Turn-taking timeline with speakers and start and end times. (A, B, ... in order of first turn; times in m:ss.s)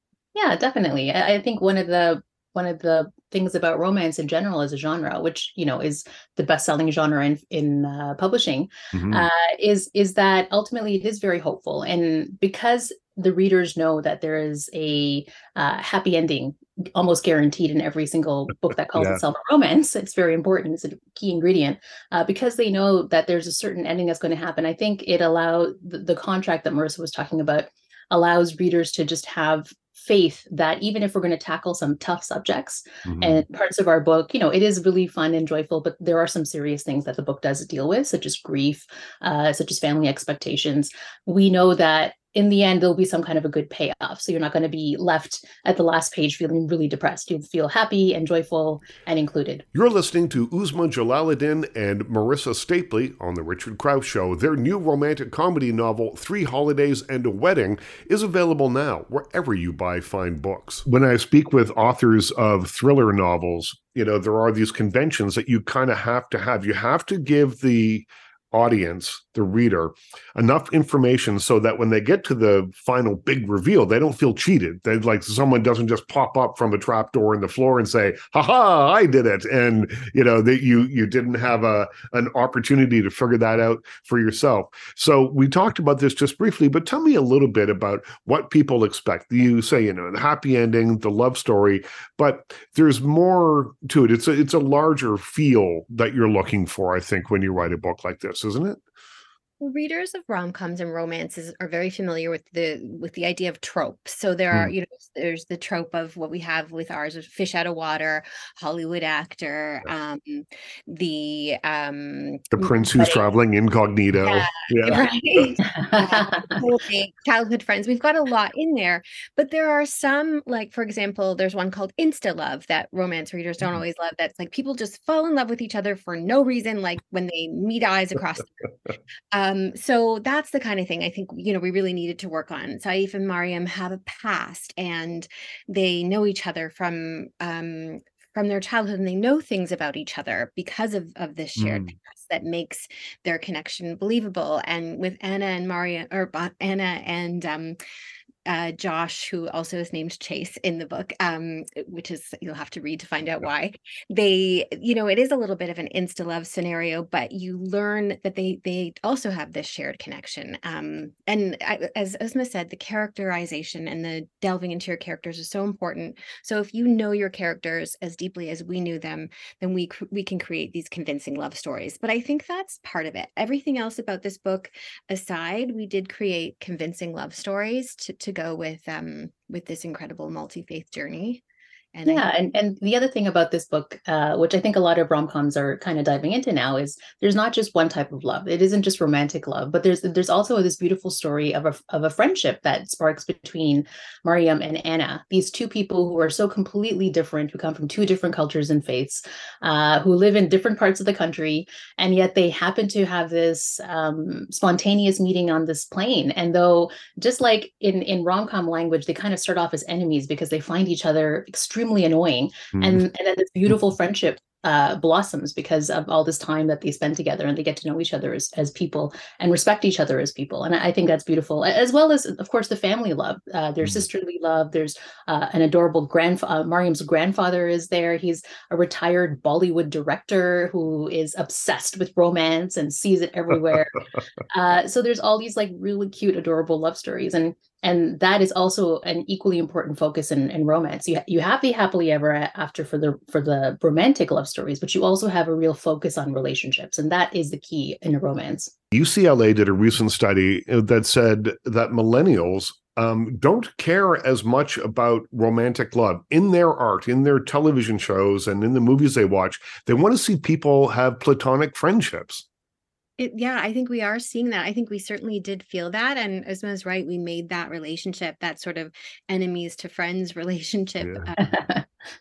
0:00.4-0:49.6 A
0:08.9-0:09.3 B
0:19.0-0:19.2 B
0:33.0-0:33.4 B
0:49.7-1:38.8 B
1:39.6-1:53.2 C
1:52.5-1:55.0 B
1:54.2-2:08.6 C
1:55.7-1:56.6 A
2:09.3-2:27.8 C
2:21.6-2:21.9 B
2:28.5-3:01.4 C
3:01.9-3:02.3 C
3:02.1-4:08.7 A
3:32.7-3:33.0 B
4:08.9-4:22.4 B
4:23.2-4:31.4 C
4:31.0-4:31.3 B
4:31.4-4:31.8 A